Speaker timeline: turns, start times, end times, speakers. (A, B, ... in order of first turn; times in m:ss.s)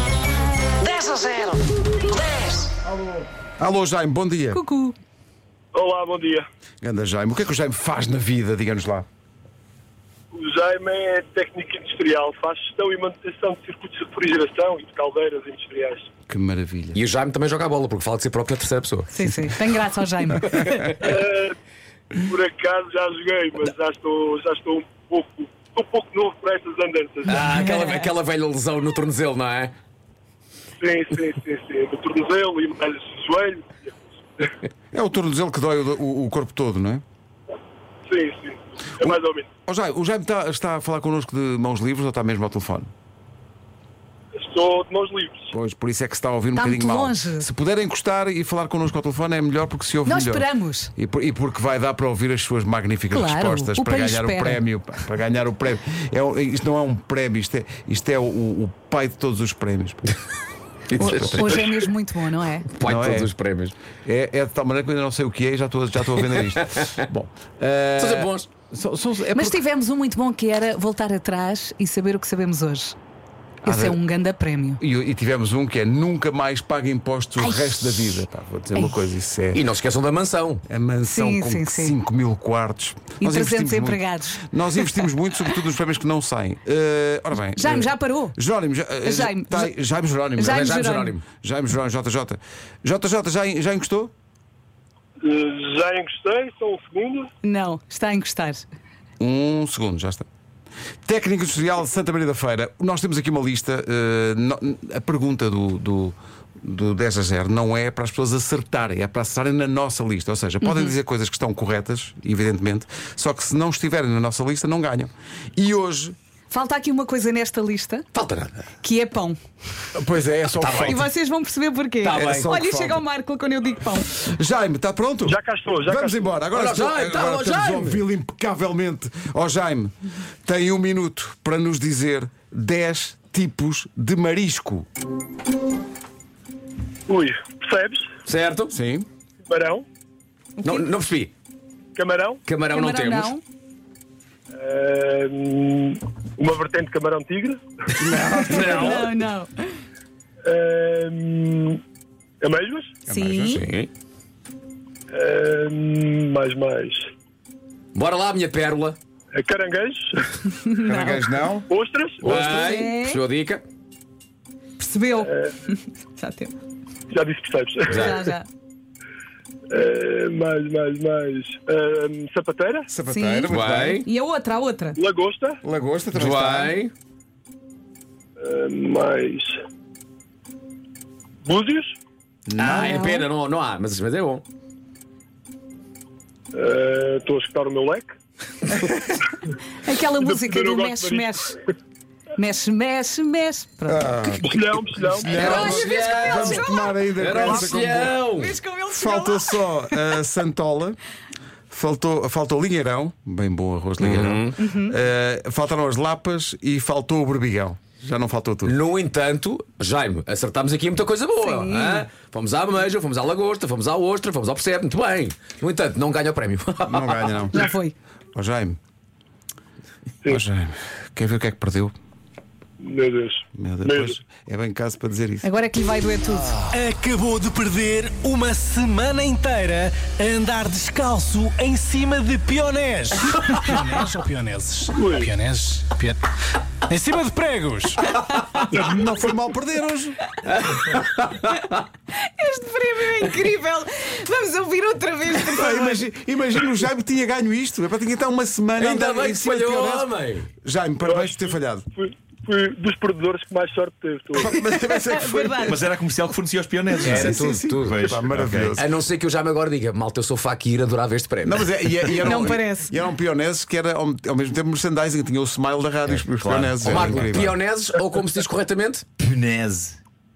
0:03.6-0:04.6 A
0:04.5-0:05.0 B
0:05.7-0:06.4 C
0:06.8-0:09.1 A
0:10.3-0:16.1 C
0:16.3-0:17.0 A
0:16.9-0:19.1 D
0:19.1-0:21.0 B
0:20.9-0:21.6 C
0:22.2-0:27.5 C
0:27.3-0:29.7 D
0:27.5-0:28.0 B
0:30.8-0:34.5 C
0:34.9-0:37.0 A
0:38.1-0:39.5 C
0:39.7-0:42.9 A
0:44.4-0:45.5 C
0:45.5-1:00.0 A
0:46.6-0:47.5 B
0:50.0-0:50.9 B
0:53.1-0:54.6 B
1:00.9-1:01.6 D
1:01.0-1:02.7 B
1:01.0-1:01.4 A
1:02.7-1:03.8 D
1:02.8-1:03.3 A
1:04.0-1:09.6 A
1:08.0-1:08.5 D
1:09.3-1:13.0 B
1:13.6-1:14.8 B
1:13.6-1:14.0 A
1:14.8-1:19.6 A
1:17.4-1:18.0 B
1:19.5-1:20.6 D
1:20.7-1:34.1 A
1:21.0-1:22.0 B
1:23.2-1:25.0 B
1:27.5-1:28.4 B
1:29.0-1:29.7 B
1:30.4-1:31.2 B
1:30.5-1:31.2 D
1:35.2-1:37.3 C
1:37.4-1:38.7 B
1:39.2-1:40.3 A
1:41.0-1:56.2 A
1:50.6-1:50.9 B
1:56.5-1:58.1 B
1:58.1-1:58.7 D
1:58.8-1:59.4 B
1:59.9-2:01.0 A
2:00.6-2:01.1 D
2:00.9-2:04.1 B
2:02.0-2:02.6 D
2:02.1-2:03.0 A
2:04.2-2:14.9 A
2:05.2-2:06.3 C
2:06.5-2:08.0 D
2:17.1-2:18.1 C
2:18.3-2:18.7 D
2:18.7-2:19.1 A
2:19.5-2:19.8 C
2:20.6-2:20.9 B
2:20.6-2:21.3 D
2:22.0-2:22.4 C
2:22.5-2:23.3 D
2:22.7-2:23.4 B
2:24.5-2:27.6 C
2:28.0-2:29.1 A
2:28.5-2:29.1 D
2:28.5-2:29.8 B
2:28.6-2:28.8 C
2:30.4-2:31.8 C
2:32.4-2:33.0 C
2:33.1-2:33.6 A
2:33.1-2:33.6 B
2:33.5-2:33.9 D
2:35.1-2:37.1 C
2:37.9-2:39.0 D
2:39.3-2:40.4 C
2:40.6-2:41.2 B
2:40.8-2:41.7 A
2:41.7-2:42.7 C
2:42.2-2:43.6 D
2:42.3-2:42.6 A
2:42.4-2:43.2 B
2:44.8-2:46.6 B
2:45.2-2:45.6 C
2:47.1-2:48.2 C
2:47.9-2:48.3 D
2:47.9-2:48.5 B
2:49.7-2:52.9 C
2:52.9-2:54.1 A
2:53.1-2:55.0 B
2:53.5-2:54.1 D
2:55.0-2:55.6 C
2:55.6-2:56.8 A
2:56.1-2:56.9 D
2:58.4-2:59.6 C
3:01.4-3:01.9 C
3:02.6-3:04.4 D
3:02.6-3:03.0 A
3:02.7-3:03.3 B
3:06.5-3:08.1 C
3:09.8-3:11.6 B
3:10.1-3:11.6 C
3:12.4-3:14.0 B
3:13.9-3:18.2 A
3:14.4-3:15.6 C
3:15.3-3:20.0 B
3:15.3-3:18.6 D
3:18.9-3:21.0 A
3:21.7-3:28.8 A
3:24.0-3:24.6 D
3:24.6-3:25.0 B
3:28.6-3:37.5 D
3:31.4-3:32.1 B
3:36.9-3:37.7 A
3:37.5-3:38.0 B
3:38.4-3:38.8 A
3:40.3-3:41.9 A
3:42.8-3:44.2 C
3:43.6-3:45.5 A
3:45.4-3:46.6 B
3:46.6-3:56.2 E
3:55.0-3:55.3 C
3:56.8-3:58.7 E
3:58.6-4:00.2 A
4:00.5-4:01.4 D
4:02.1-4:06.1 B
4:05.5-4:10.1 A
4:08.8-4:10.5 D
4:10.6-4:11.9 A
4:11.0-4:14.5 C
4:14.4-4:15.8 A
4:14.8-4:15.8 B
4:15.6-4:18.8 F
4:17.0-4:18.0 D
4:17.1-4:18.9 A
4:18.8-4:21.7 D
4:21.4-4:27.6 A
4:22.2-4:22.9 B
4:26.1-4:27.4 F
4:26.7-4:29.0 D
4:29.2-4:30.0 F